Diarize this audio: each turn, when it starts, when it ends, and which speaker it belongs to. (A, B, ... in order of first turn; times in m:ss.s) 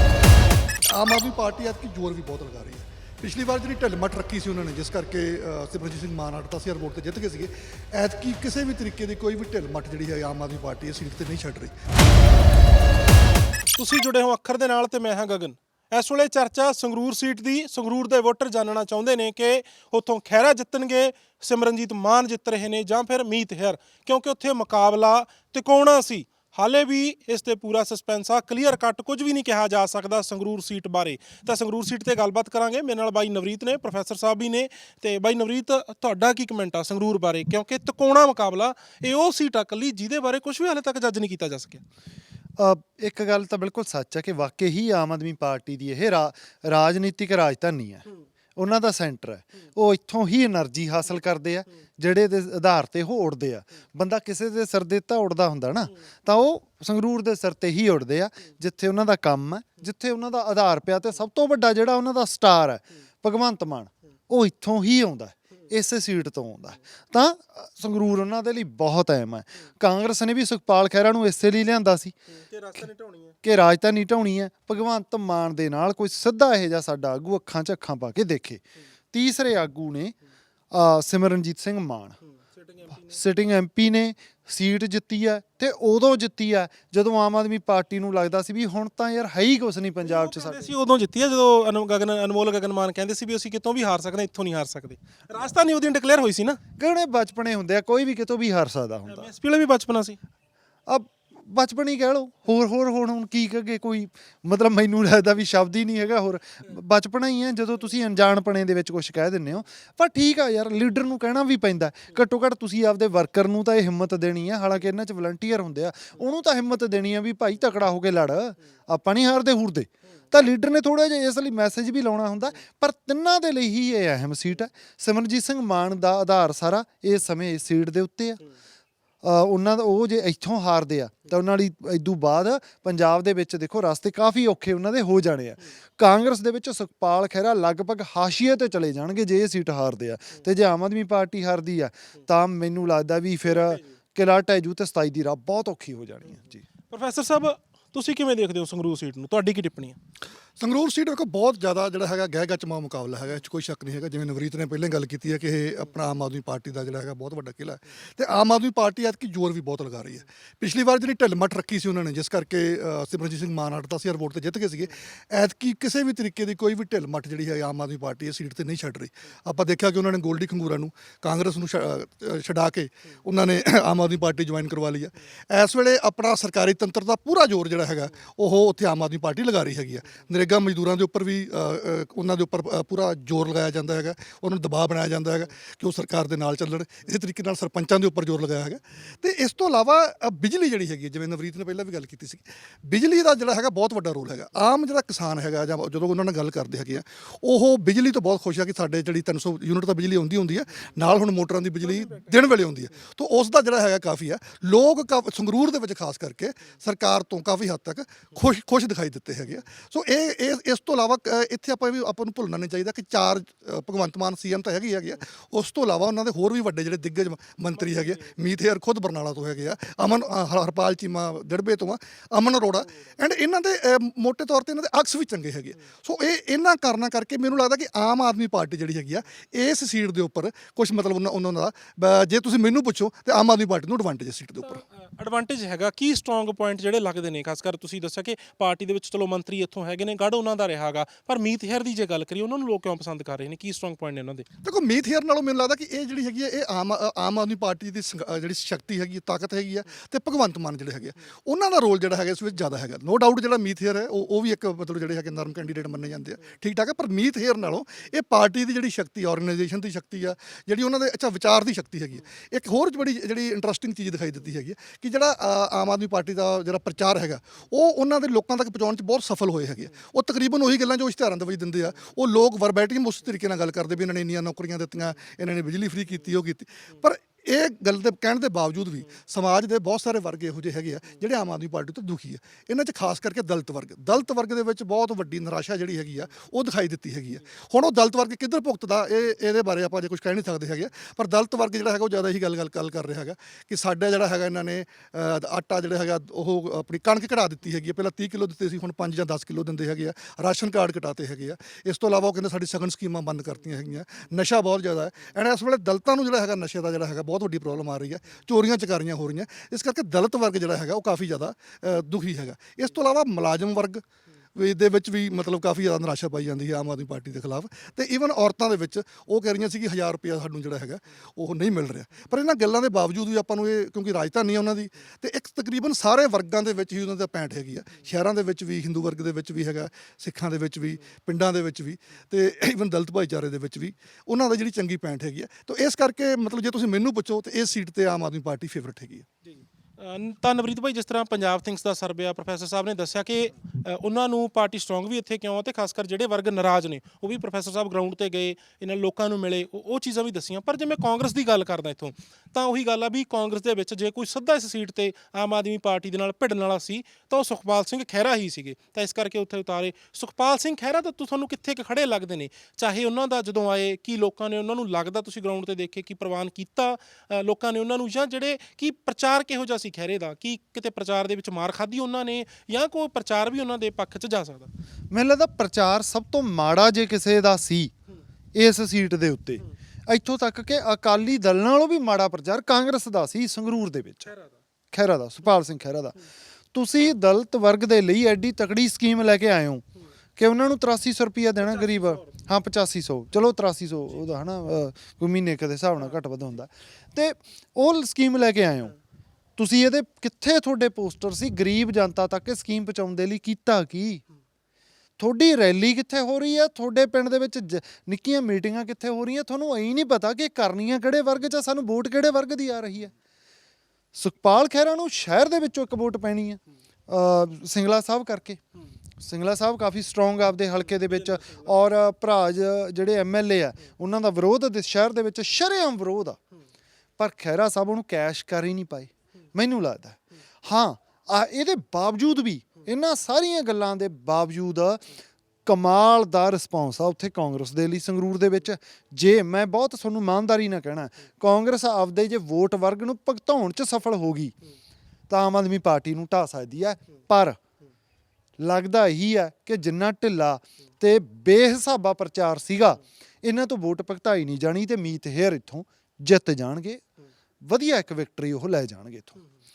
0:00.9-0:11.7 A
0:13.8-0:41.8 B
0:42.6-0:48.0 C
0:48.6-1:12.1 C
1:12.3-1:13.3 B
1:13.4-1:20.1 C
1:20.7-1:22.2 C
1:22.4-1:23.2 B
1:23.1-1:30.7 C
1:30.0-1:36.6 B
1:36.8-1:39.3 C
1:39.1-1:40.2 B
1:40.9-2:08.4 C
2:09.2-2:26.6 C
2:23.5-2:23.8 B
2:26.9-2:30.0 B
2:30.6-3:54.8 A
3:54.7-4:04.4 B
4:04.6-5:14.0 A
5:14.5-5:39.2 A
5:39.6-6:14.7 B
6:15.1-6:17.9 C
6:18.5-6:24.3 C
6:24.9-6:26.2 C
6:26.7-6:29.8 C
6:30.4-6:38.9 C
6:31.6-6:32.3 B
6:39.6-6:44.2 C
6:45.2-6:53.1 C
6:54.1-6:58.6 C
6:59.2-7:06.4 C
7:01.3-7:01.6 B
7:07.2-7:15.0 C
7:15.6-7:24.5 C
7:25.3-7:27.6 C
7:28.6-7:37.0 C
7:37.6-7:39.4 C